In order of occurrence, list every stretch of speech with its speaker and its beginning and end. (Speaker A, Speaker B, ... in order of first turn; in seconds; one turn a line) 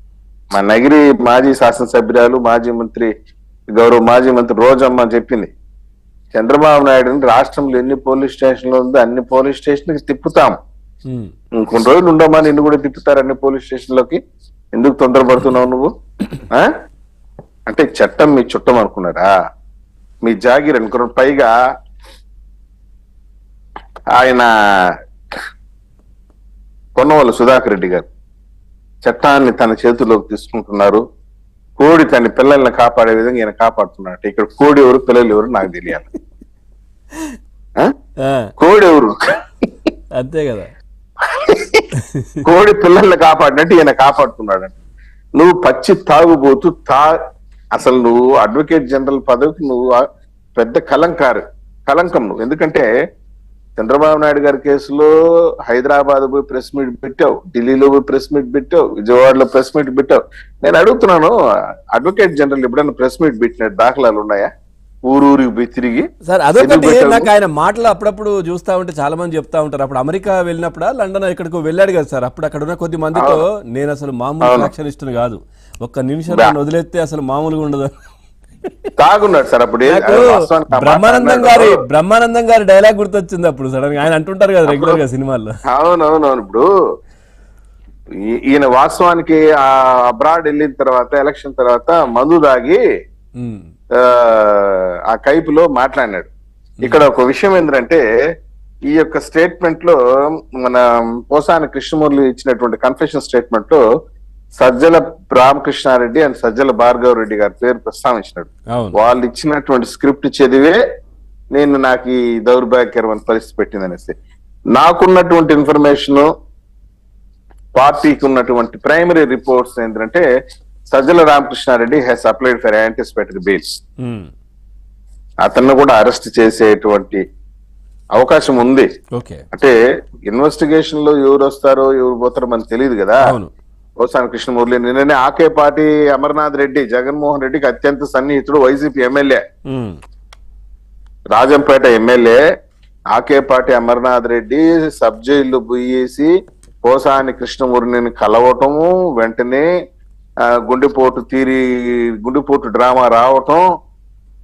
Speaker A: 0.6-3.1
Speaker A: 3.8-5.5
Speaker A: 6.3-10.6
Speaker B: 11.1-11.3
Speaker A: 11.6-14.2
Speaker A: 14.8-15.9
Speaker A: 17.7-19.3
Speaker A: 20.2-21.5
Speaker A: 24.2-24.5
Speaker A: 27.0-28.1
Speaker A: 29.1-31.0
Speaker A: 31.8-36.1
Speaker B: 38.2-38.5
Speaker A: 38.6-39.1
Speaker B: 40.2-40.7
Speaker A: 41.3-41.8
Speaker B: 42.0-42.4
Speaker A: 42.4-44.7
Speaker A: 45.4-47.2
Speaker A: 47.8-50.0
Speaker A: 50.6-52.9
Speaker A: 53.8-55.1
Speaker A: 55.7-61.4
Speaker A: 62.0-64.5
Speaker A: 65.1-66.1
Speaker B: 66.2-77.9
Speaker A: 66.6-67.3
Speaker A: 73.2-73.4
Speaker A: 74.4-74.7
Speaker A: 79.0-81.8
Speaker B: 79.9-85.5
Speaker A: 84.7-85.0
Speaker A: 85.7-86.7
Speaker A: 88.3-92.8
Speaker B: 93.4-93.7
Speaker A: 94.0-96.3
Speaker A: 96.8-98.0
Speaker A: 98.9-100.0
Speaker A: 100.6-103.8
Speaker A: 104.6-110.8
Speaker A: 111.5-114.2
Speaker A: 114.8-116.3
Speaker A: 117.8-120.2
Speaker A: 120.9-123.8
Speaker B: 124.0-124.3
Speaker A: 125.5-127.2
Speaker A: 128.2-128.9
Speaker B: 129.2-129.4
Speaker A: 130.3-133.3
Speaker B: 133.2-133.5
Speaker A: 134.0-139.4
Speaker B: 139.7-140.0
Speaker A: 141.3-142.4
Speaker A: 143.1-146.3
Speaker A: 146.8-149.7
Speaker A: 150.5-153.6